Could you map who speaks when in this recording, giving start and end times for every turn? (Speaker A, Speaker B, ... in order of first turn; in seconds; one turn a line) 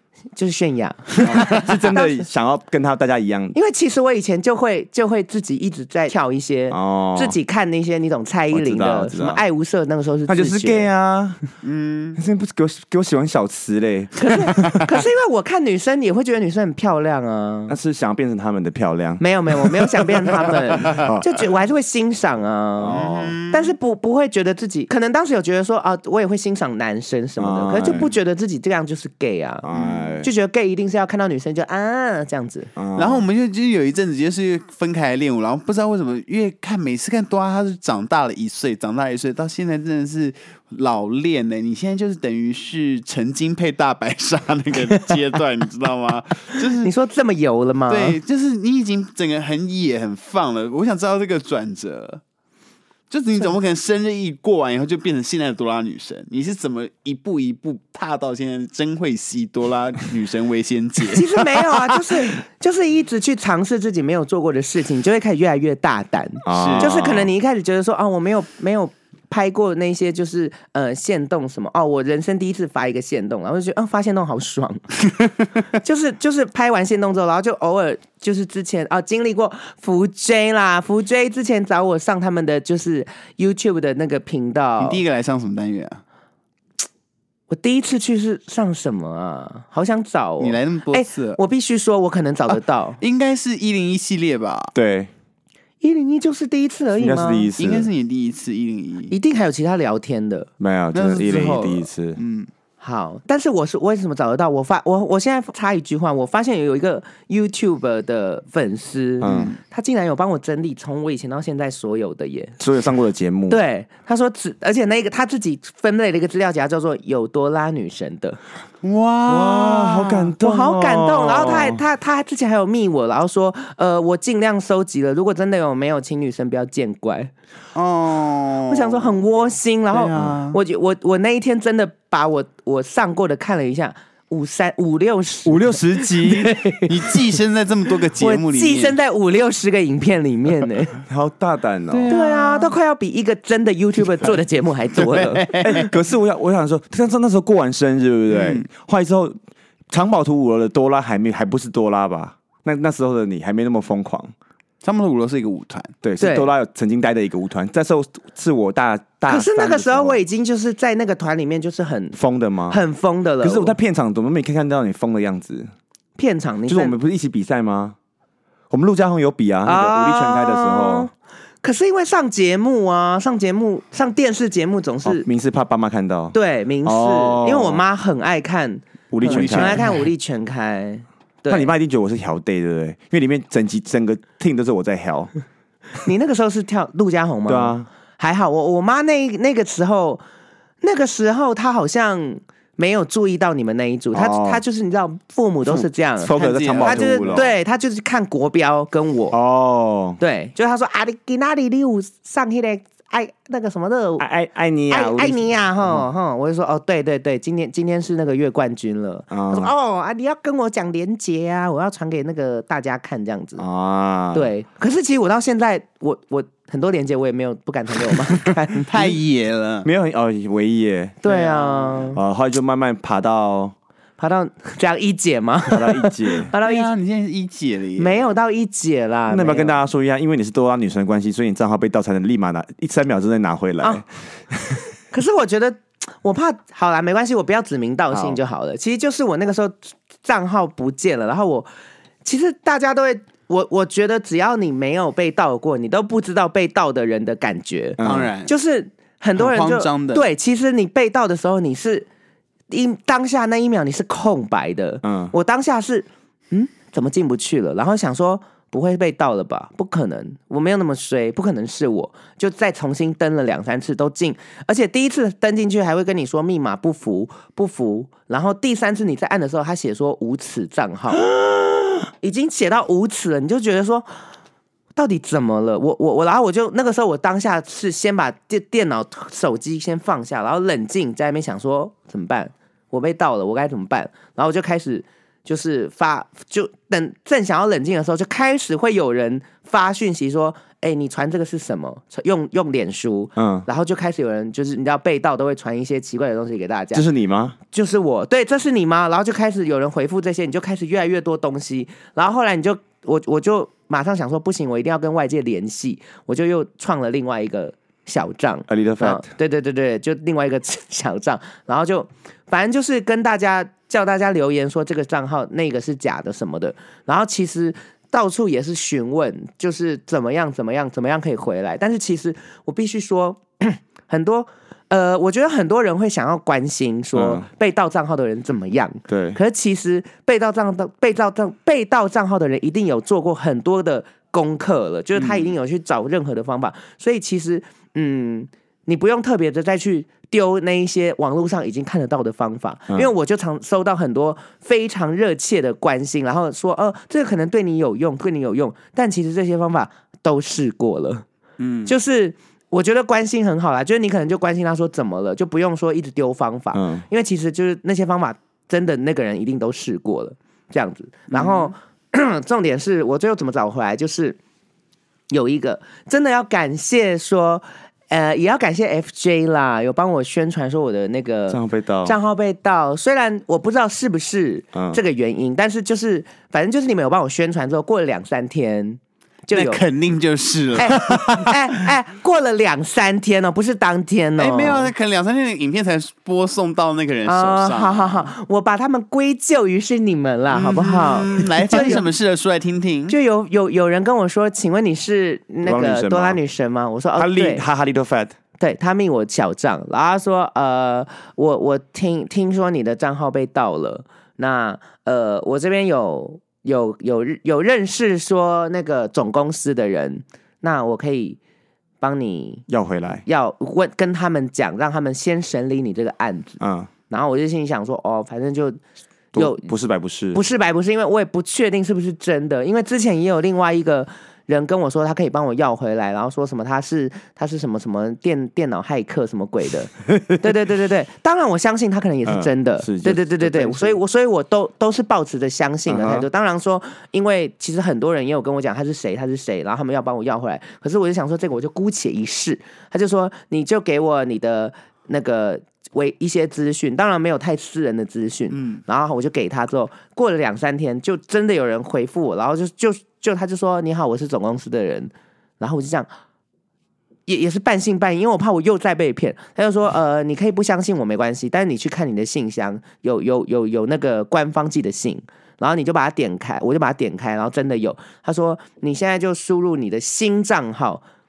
Speaker A: 0.3-2.2
Speaker B: 1.2-3.6
Speaker C: 1.2-1.6
Speaker A: 3.5-10.9
Speaker B: 6.7-7.4
Speaker B: 8.5-9.4
Speaker B: 10.3-11.4
Speaker C: 11.6-12.2
Speaker B: 12.2-14.9
Speaker A: 14.2-17.7
Speaker B: 17.7-19.7
Speaker A: 19.2-29.7
Speaker B: 20.7-21.3
Speaker B: 22.8-23.4
Speaker C: 22.9-23.8
Speaker B: 27.4-28.1
Speaker B: 29.6-30.3
Speaker C: 29.7-30.1
Speaker A: 30.2-32.7
Speaker B: 32.8-33.2
Speaker C: 33.0-46.9
Speaker A: 46.8-48.2
Speaker C: 47.9-52.2
Speaker C: 53.1-62.1
Speaker A: 61.1-74.8
Speaker B: 66.5-67.3
Speaker C: 66.5-66.9
Speaker A: 75.8-85.0
Speaker C: 84.8-86.0
Speaker A: 87.5-93.0
Speaker C: 90.4-91.4
Speaker C: 93.0-94.7
Speaker B: 94.7-95.1
Speaker A: 95.8-97.5
Speaker B: 97.0-97.9
Speaker C: 97.6-99.1
Speaker A: 99.1-100.5
Speaker B: 100.6-102.2
Speaker C: 100.9-102.5
Speaker A: 102.8-112.6
Speaker B: 109.2-109.5
Speaker C: 109.2-109.6
Speaker B: 112.6-113.6
Speaker A: 113.5-118.4
Speaker C: 118.8-120.3
Speaker B: 119.3-121.8
Speaker A: 120.4-127.3
Speaker C: 127.8-129.2
Speaker A: 128.7-137.2
Speaker C: 129.9-130.6
Speaker B: 135.5-136.6
Speaker C: 136.9-139.0
Speaker A: 138.2-141.0
Speaker B: 141.1-142.1
Speaker C: 141.9-142.7
Speaker A: 142.1-145.9
Speaker C: 144.9-145.8
Speaker B: 145.6-149.4
Speaker C: 148.3-148.6
Speaker B: 149.9-154.3
Speaker C: 154.8-155.9
Speaker B: 156.0-160.2
Speaker A: 156.2-156.5
Speaker A: 159.3-162.2
Speaker B: 162.1-162.8
Speaker A: 162.7-163.8
Speaker B: 163.4-165.7
Speaker A: 166.2-166.9
Speaker B: 166.7-168.0
Speaker B: 168.7-171.1
Speaker A: 169.7-171.1
Speaker A: 171.6-175.2
Speaker B: 175.1-177.8
Speaker A: 176.3-181.7
Speaker B: 179.1-179.9
Speaker C: 179.2-180.1
Speaker B: 181.5-185.3
Speaker A: 186.0-190.2
Speaker B: 187.5-187.9
Speaker A: 190.8-199.3
Speaker B: 194.1-194.6
Speaker B: 195.7-197.5
Speaker C: 196.3-197.5
Speaker B: 199.3-200.2
Speaker A: 200.2-204.2
Speaker B: 204.2-206.1
Speaker A: 204.9-213.6
Speaker B: 209.3-209.7
Speaker B: 213.6-214.5
Speaker A: 214.3-219.1
Speaker C: 218.8-219.9
Speaker B: 219.8-221.2
Speaker A: 221.2-222.2
Speaker C: 221.2-222.1
Speaker B: 222.1-223.8
Speaker A: 224.2-226.9
Speaker B: 225.7-226.5
Speaker C: 226.6-228.2
Speaker A: 228.0-229.8
Speaker B: 229.3-234.8
Speaker A: 235.1-241.7
Speaker A: 242.2-252.1
Speaker B: 248.0-248.3
Speaker C: 248.0-248.5
Speaker C: 249.4-250.2
Speaker A: 252.7-271.3
Speaker B: 255.0-255.3
Speaker A: 272.1-274.1
Speaker A: 275.0-297.1
Speaker B: 293.4-293.6
Speaker B: 296.9-297.6
Speaker A: 297.7-351.2
Speaker B: 308.7-309.3
Speaker B: 327.1-327.5
Speaker B: 329.1-329.4
Speaker C: 335.2-335.5
Speaker C: 351.6-351.9
Speaker A: 351.9-364.4
Speaker B: 356.7-357.1
Speaker C: 361.3-361.7
Speaker A: 365.3-379.8
Speaker B: 371.5-372.2
Speaker B: 374.7-375.0
Speaker C: 379.5-381.9
Speaker A: 380.8-384.9
Speaker C: 384.4-388.3
Speaker A: 387.2-392.1
Speaker C: 390.5-393.2
Speaker A: 393.1-397.6
Speaker B: 395.6-396.4
Speaker B: 397.1-398.4
Speaker A: 398.6-411.4
Speaker A: 412.0-412.6
Speaker B: 412.7-413.2
Speaker A: 413.2-416.6
Speaker B: 416.6-416.9
Speaker A: 417.1-418.8
Speaker A: 419.4-419.7
Speaker B: 419.4-420.4
Speaker A: 420.3-456.1
Speaker B: 432.2-434.0
Speaker B: 435.9-436.3
Speaker C: 448.5-448.8
Speaker A: 457.3-471.0